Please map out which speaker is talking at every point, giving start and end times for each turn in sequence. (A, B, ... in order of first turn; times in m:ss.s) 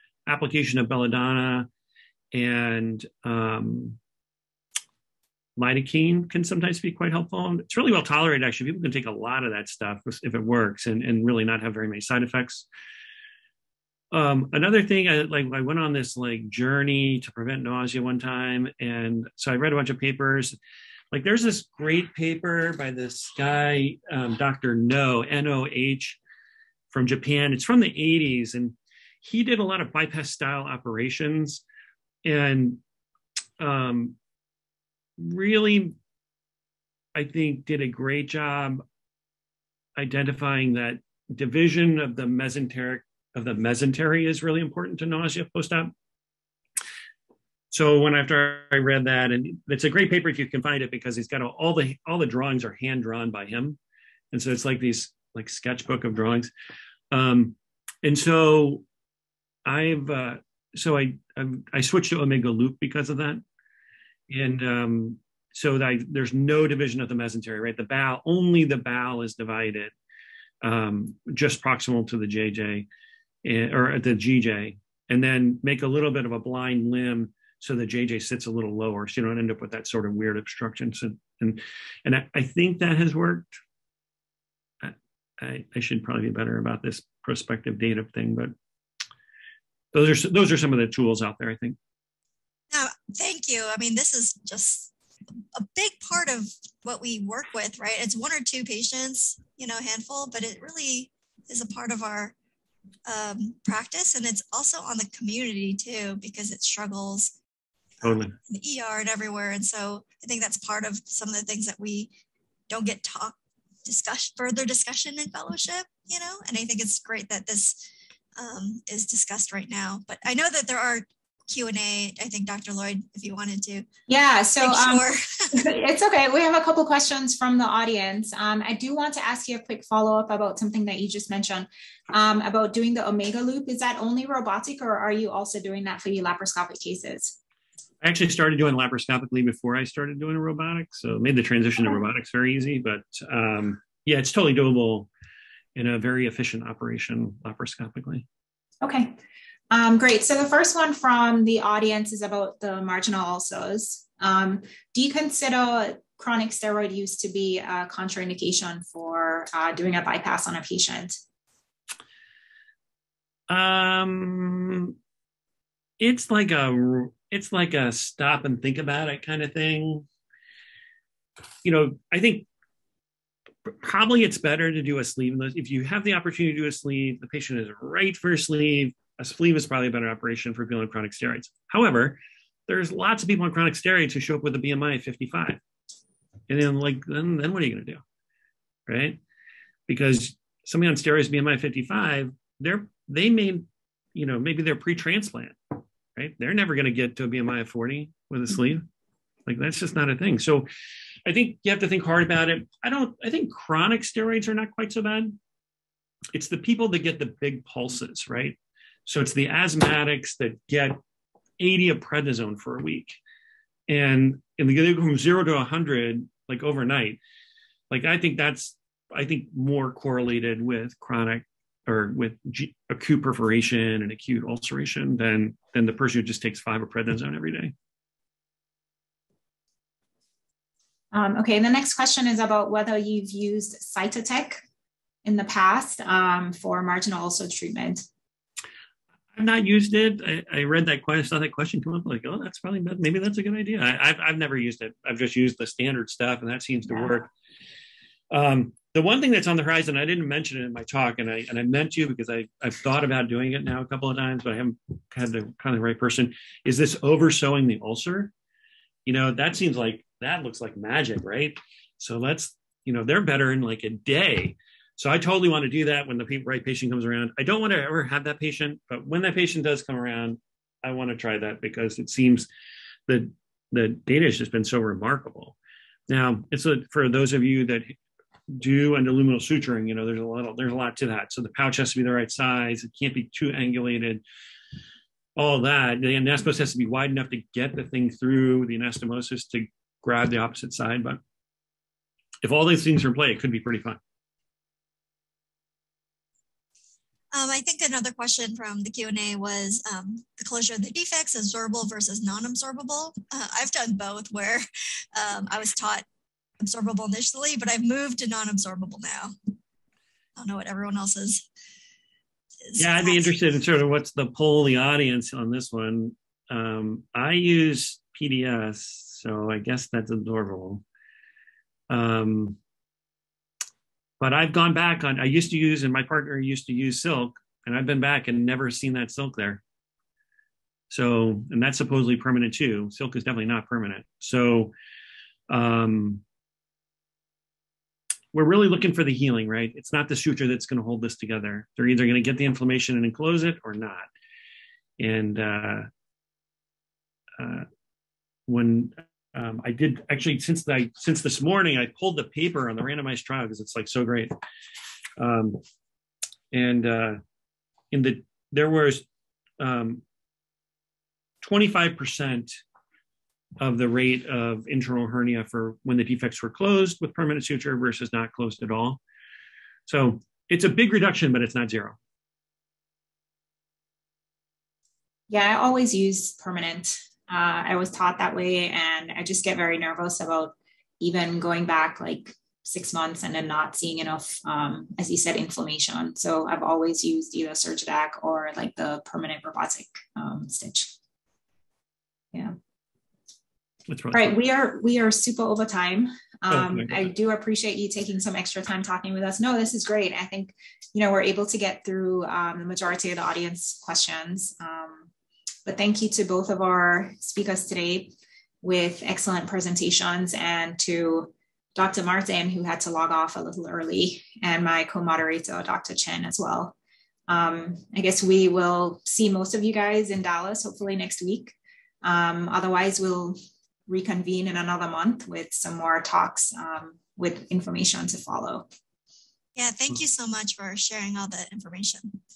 0:00.3-0:01.7 A
0:02.3-0:04.0 A
0:05.6-0:12.7 A
0:14.1-0:20.6 A
0:21.1-0:26.2 A
0:26.9-0:31.6 A
0:32.2-0:32.8 A
0:33.6-0:34.2 A
0:35.2-0:36.0 A
0:37.2-0:38.8 A
0:40.0-0:45.9 A
0:47.7-0:53.8 A
0:54.3-0:56.5 A
0:57.1-0:58.8 A
0:59.7-1:03.4 A
1:04.3-1:09.9 A
1:10.6-1:12.9 A
1:13.4-1:23.5 A
1:24.8-1:28.5 A
1:29.9-1:31.8 A
1:32.7-1:34.9 B
1:35.6-1:42.3 B
1:43.1-1:47.3 B
1:48.0-1:48.4 A
1:48.5-1:52.1 B
1:52.7-1:57.8 B
1:58.4-2:03.9 B
2:04.1-2:17.3 C
2:04.6-2:05.6 B
2:18.0-2:25.1 A
2:25.8-2:28.2 A
2:28.8-2:29.2 C
2:29.7-2:41.2 C
2:43.5-2:45.0 A
2:46.0-2:50.1 A
2:51.6-2:52.5 A
2:53.7-3:05.6 A
3:06.5-3:08.0 A
3:08.9-3:09.2 A
3:09.9-3:15.6 A
3:16.2-3:18.8 A
3:19.5-3:20.7 A
3:21.3-3:25.4 A
3:26.3-3:31.0 A
3:31.6-3:33.2 A
3:33.9-3:37.2 A
3:37.9-3:47.7 A
3:51.1-3:54.6 C
3:55.2-3:58.0 C
3:59.4-4:07.3 A
4:08.3-4:18.3 A
4:19.1-4:32.5 A
4:33.1-4:35.6 A
4:36.1-4:38.0 A
4:38.5-4:44.2 A
4:45.4-4:51.2 A
4:52.4-4:54.0 A
4:57.3-5:04.6 B
5:05.2-5:06.1 B
5:06.6-5:09.4 B
5:10.4-5:11.4 B
5:12.7-5:13.5 B
5:12.8-5:20.8 A
5:21.9-5:22.6 A
5:24.2-5:29.6 A
5:30.9-5:34.7 A
5:35.5-5:36.2 A
5:38.3-5:44.1 A
5:45.0-5:45.9 A
5:47.4-5:47.7 A
5:48.5-5:54.4 A
5:55.2-5:55.6 A
5:56.5-5:57.2 A
5:57.9-5:59.0 A
5:59.6-6:00.0 A
6:01.4-6:02.6 A
6:03.6-6:09.0 A
6:09.9-6:12.0 A
6:15.3-6:30.9 C
6:33.9-6:34.4 A
6:34.1-6:45.1 C
6:36.5-6:37.0 A
6:45.7-6:56.7 C
6:57.3-7:08.7 C
7:09.6-7:12.2 B